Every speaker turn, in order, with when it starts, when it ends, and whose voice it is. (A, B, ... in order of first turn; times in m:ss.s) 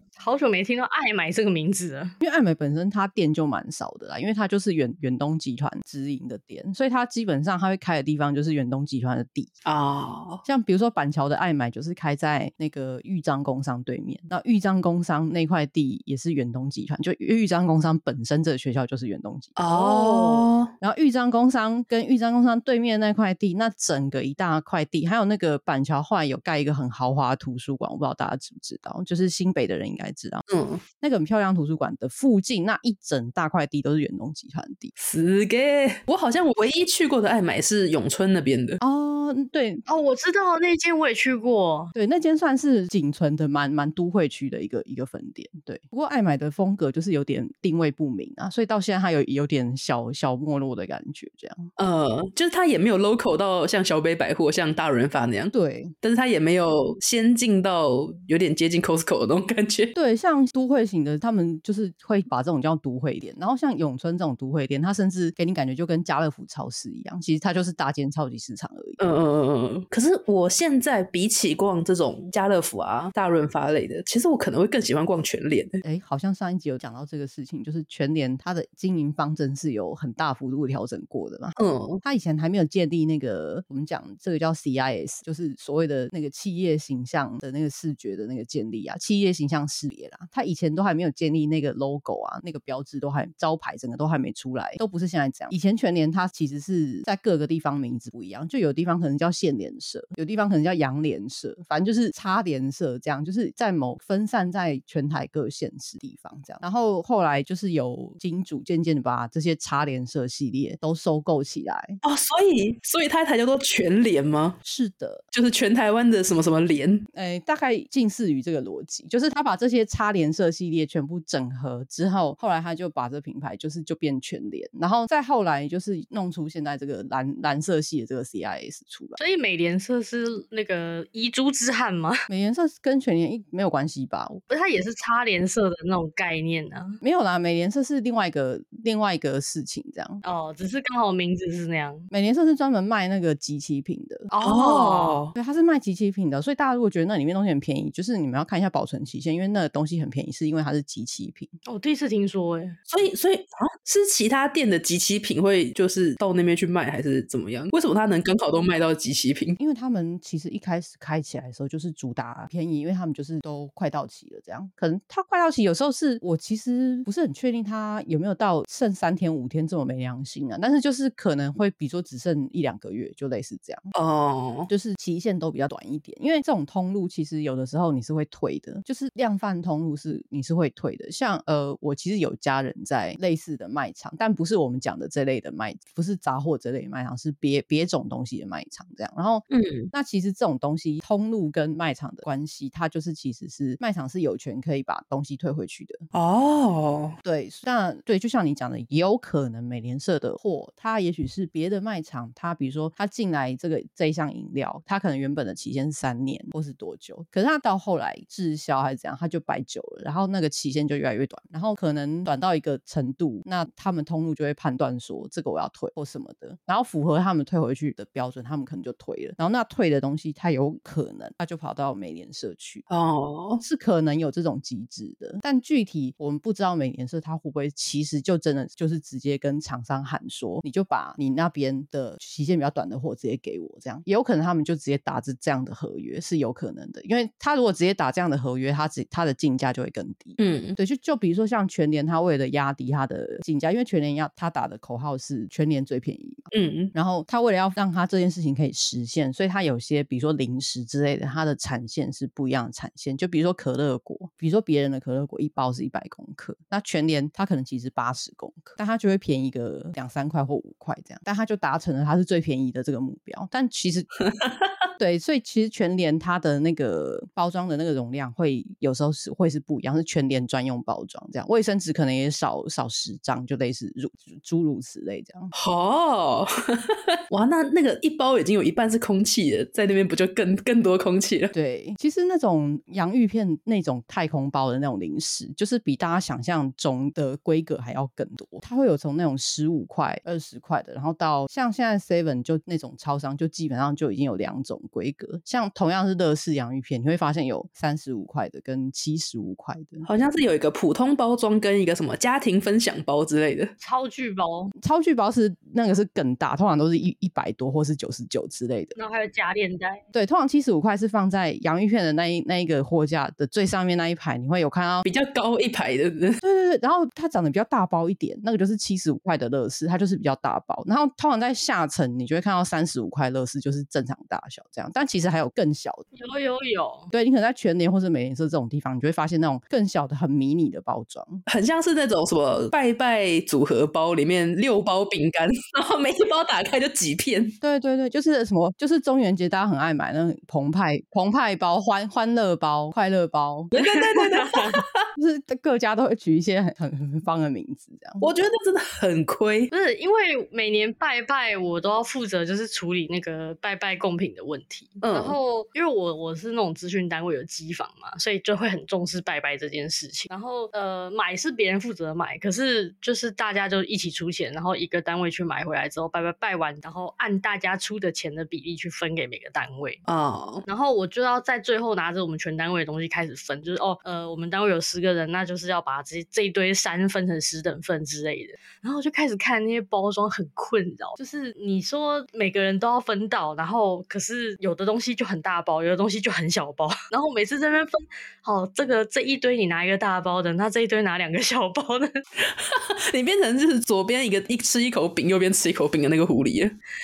0:00.2-0:02.1 A
0:02.2-0:09.5 B
0:09.6-0:10.4 C
0:10.4-0:19.6 B
0:19.6-0:20.7 C
0:19.7-0:20.5 A
0:20.8-0:30.4 B
0:30.5-0:30.8 C
0:31.0-0:34.9 B
0:35.0-0:38.8 C
0:38.8-0:39.8 B
0:39.9-0:41.9 A
0:41.9-0:51.7 B
0:51.8-0:59.9 C
0:55.5-0:55.9 B
0:59.9-1:09.0 B
1:09.0-1:15.8 C
1:15.8-1:52.0 B
1:21.6-1:22.0 C
1:52.0-1:54.6 C
1:54.6-1:55.2 B
1:55.3-1:57.0 C
1:57.1-2:09.2 B
2:09.2-2:12.2 A
2:12.3-2:14.4 B
2:14.5-2:17.0 A
2:17.0-2:20.2 B
2:20.2-2:22.1 A
2:22.1-2:24.3 B
2:24.3-2:25.2 A
2:24.4-2:25.3 C
2:25.3-2:31.5 B
2:31.6-2:32.8 A
2:32.9-2:39.6 C
2:39.6-2:53.9 B
2:53.9-2:54.7 C
2:54.7-3:16.0 B
3:09.5-3:09.9 C
3:16.1-3:17.2 C
3:17.2-3:42.8 B
3:42.9-3:43.6 C
3:43.6-4:24.1 B
4:00.4-4:00.8 C
4:06.5-4:06.9 C
4:25.0-4:35.5 B
4:35.5-4:41.5 C
4:41.5-5:00.0 B
5:00.0-5:03.7 C
5:03.8-5:04.7 A
5:04.8-5:08.9 B
5:09.0-5:10.0 A
5:10.1-5:15.0 B
5:15.0-5:16.4 C
5:16.4-5:26.0 B
5:26.1-5:27.1 A
5:27.1-5:31.4 B
5:31.5-5:37.6 C
5:37.6-5:43.7 B
5:43.7-5:45.0 C
5:43.8-5:44.8 A
5:45.2-5:48.3 B
5:48.2-5:49.7 C
5:49.7-6:10.0 A
5:55.0-5:55.4 C
6:10.1-6:10.6 C
6:10.6-6:32.1 A
6:32.4-6:36.7 C